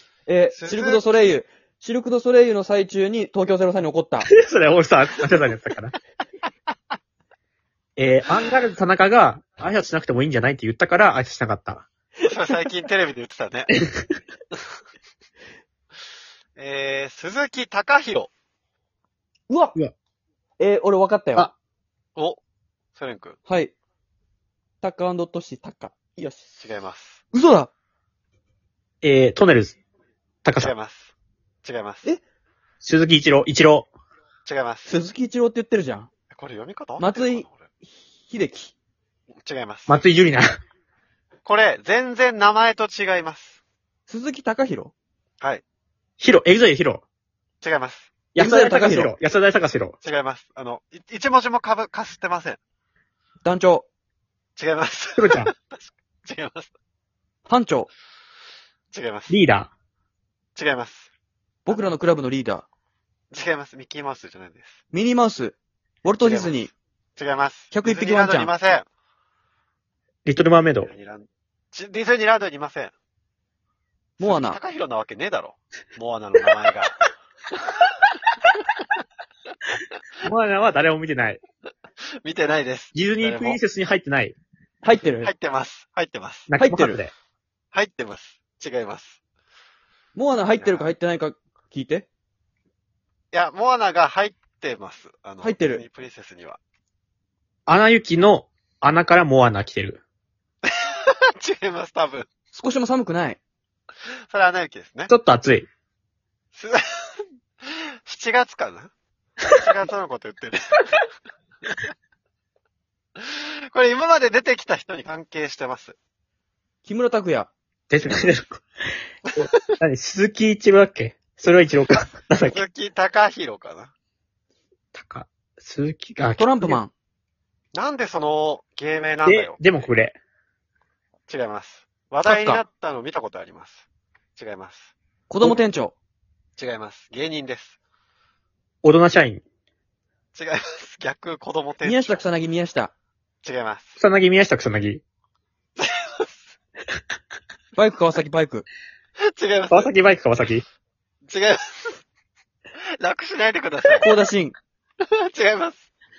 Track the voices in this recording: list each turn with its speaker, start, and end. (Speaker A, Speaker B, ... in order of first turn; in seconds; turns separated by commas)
Speaker A: 0.3-4.3, Speaker B: 0.5-1.1, Speaker C: 4.2-5.9, Speaker C: 8.0-11.9, Speaker B: 12.2-13.7, Speaker C: 13.8-14.1, Speaker B: 16.6-18.3, Speaker A: 19.5-19.8, Speaker A: 20.6-21.5, Speaker B: 22.9-23.4, Speaker A: 23.5-23.7, Speaker A: 24.8-26.4, Speaker B: 26.6-27.2, Speaker A: 27.3-27.7, Speaker C: 29.0-29.8, Speaker C: 30.4-30.7, Speaker B: 30.6-32.1, Speaker C: 32.8-33.9, Speaker B: 34.5-35.0, Speaker A: 34.9-36.1, Speaker B: 36.3-37.7, Speaker A: 37.0-37.5, Speaker A: 38.3-38.7, Speaker B: 39.3-40.0, Speaker C: 39.9-40.6, Speaker B: 41.5-43.6, Speaker A: 44.1-44.9, Speaker C: 46.2-47.0, Speaker B: 47.6-48.1, Speaker C: 48.4-50.0, Speaker A: 48.4-49.1, Speaker B: 50.0-52.6, Speaker A: 53.4-53.9, Speaker B: 54.6-56.7, Speaker C: 55.2-55.5, Speaker A: 57.5-57.9, Speaker B: 58.9-59.4, Speaker C: 59.3-59.7, Speaker B: 60.5-61.1, Speaker A: 61.6-62.7, Speaker B: 63.3-64.8, Speaker A: 64.9-66.7, Speaker B: 66.2-68.9, Speaker A: 67.7-68.5, Speaker C: 70.2-70.9, Speaker B: 70.8-72.9, Speaker B: 74.2-77.0, Speaker A: 74.2-74.6, Speaker C: 80.2-81.4, Speaker B: 82.2-83.6, Speaker C: 82.9-84.4, Speaker A: 84.8-85.3, Speaker B: 85.2-86.5, Speaker C: 86.5-87.1, Speaker A: 86.6-87.0, Speaker B: 87.7-89.2, Speaker A: 90.2-92.1, Speaker B: 90.6-90.9, Speaker B: 93.3-96.6, Speaker A: 95.4-95.8, Speaker C: 97.7-100.0, Speaker B: 100.7-102.3, Speaker A: 102.5-103.4, Speaker B: 104.3-105.1, Speaker C: 105.1-105.7, Speaker B: 106.5-108.9, Speaker B: 109.6-110.9, Speaker B: 113.2-116.0, Speaker A: 116.8-117.5, Speaker C: 117.9-118.6, Speaker C: 119.4-122.6, Speaker B: 122.4-123.9, Speaker C: 124.9-126.8, Speaker A: 126.4-126.9, Speaker B: 127.7-129.6, Speaker C: 129.2-130.2, Speaker B: 131.3-133.8, Speaker A: 132.2-132.6, Speaker B: 134.4-134.9, Speaker A: 135.3-135.9, Speaker B: 136.6-137.8, Speaker C: 138.8-139.4, Speaker B: 140.3-142.2, Speaker A: 141.8-142.9, Speaker B: 143.4-144.0, Speaker C: 144.0-145.0, Speaker B: 145.8-146.4, Speaker A: 147.8-148.7, Speaker B: 149.2-149.9, Speaker C: 149.7-150.7, Speaker B: 151.3-152.0, Speaker B: 153.0-154.1, Speaker A: 154.0-154.6, Speaker B: 155.1-155.9